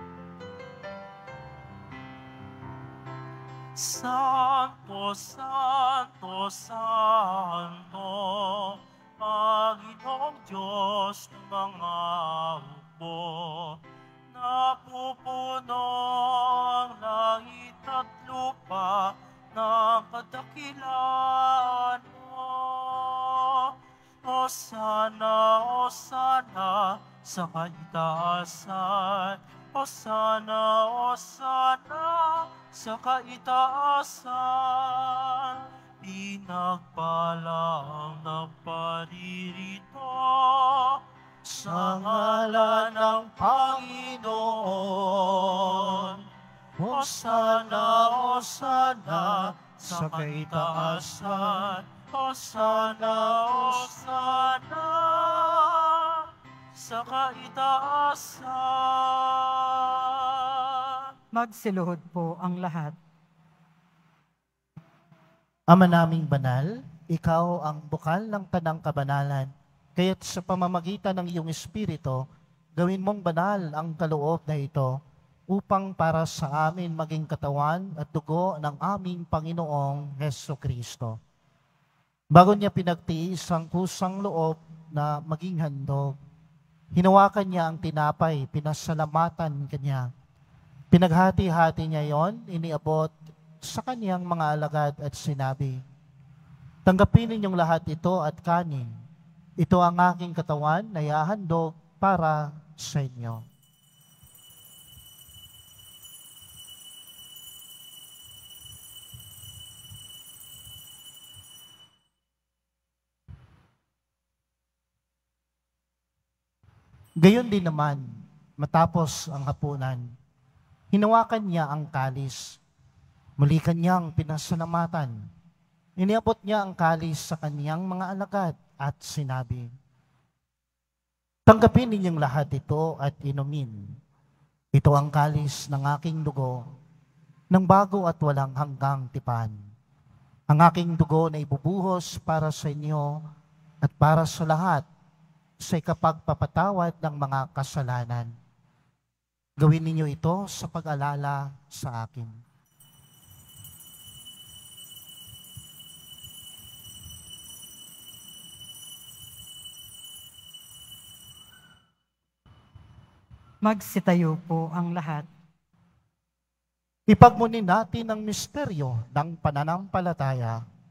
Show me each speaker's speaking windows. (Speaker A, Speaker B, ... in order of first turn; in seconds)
Speaker A: 3.8-41.0, 41.5-46.2, 46.9-61.1
Speaker B: 41.5-46.2, 46.8-51.7, 52.8-53.9, 65.7-72.2, 72.8-75.0, 75.5-81.2, 82.3-86.2, 86.9-90.1, 90.9-95.8, 96.9-98.9, 99.6-103.4, 117.2-120.1, 120.9-122.6, 123.4-125.3, 126.0-129.7, 131.5-133.9, 134.7-136.6, 137.5-139.6, 140.5-143.2, 143.8-144.9, 145.6-148.3, 149.6-152.4, 167.1-170.6
Speaker C: 61.4-63.0, 163.6-165.3